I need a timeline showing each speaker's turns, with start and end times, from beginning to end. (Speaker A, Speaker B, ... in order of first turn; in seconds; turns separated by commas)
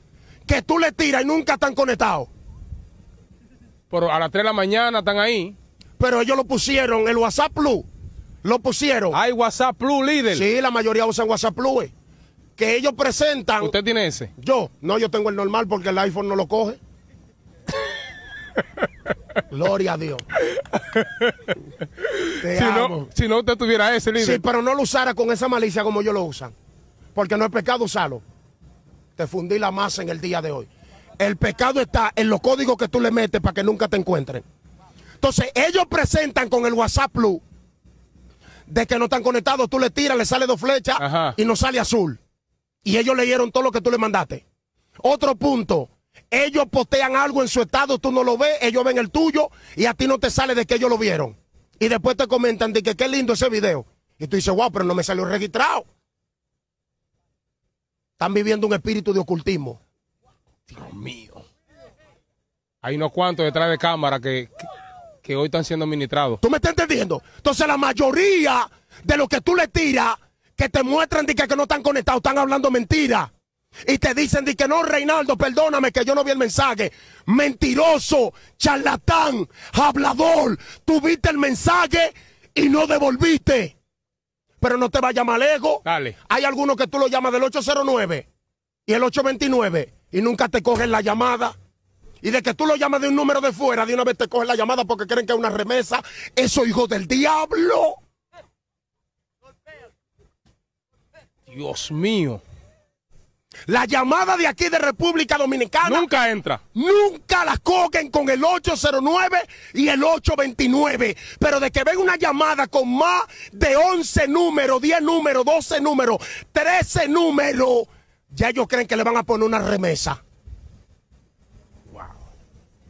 Speaker A: 0.5-2.3, Speaker B: 3.9-5.5, Speaker A: 6.0-7.8, Speaker A: 8.4-9.2, Speaker B: 9.1-10.4, Speaker A: 10.3-11.9, Speaker A: 12.6-13.7, Speaker B: 13.6-14.3, Speaker A: 14.4-16.8, Speaker A: 19.5-20.2, Speaker B: 20.6-21.5, Speaker B: 22.0-24.4, Speaker A: 22.4-23.0, Speaker A: 24.2-26.5, Speaker A: 27.1-28.2, Speaker A: 29.2-34.4, Speaker A: 35.2-37.4, Speaker A: 38.7-42.2, Speaker B: 41.0-41.4, Speaker A: 42.8-44.4, Speaker A: 45.0-55.9, Speaker A: 58.2-59.8, Speaker B: 60.7-61.4, Speaker B: 62.8-64.7, Speaker B: 65.2-66.4, Speaker A: 66.4-73.3, Speaker A: 73.8-83.7, Speaker A: 84.6-88.2, Speaker B: 85.8-86.2, Speaker A: 88.9-91.5, Speaker A: 92.2-98.0, Speaker B: 101.5-102.4, Speaker A: 103.7-106.1, Speaker B: 105.8-106.6, Speaker A: 106.7-120.2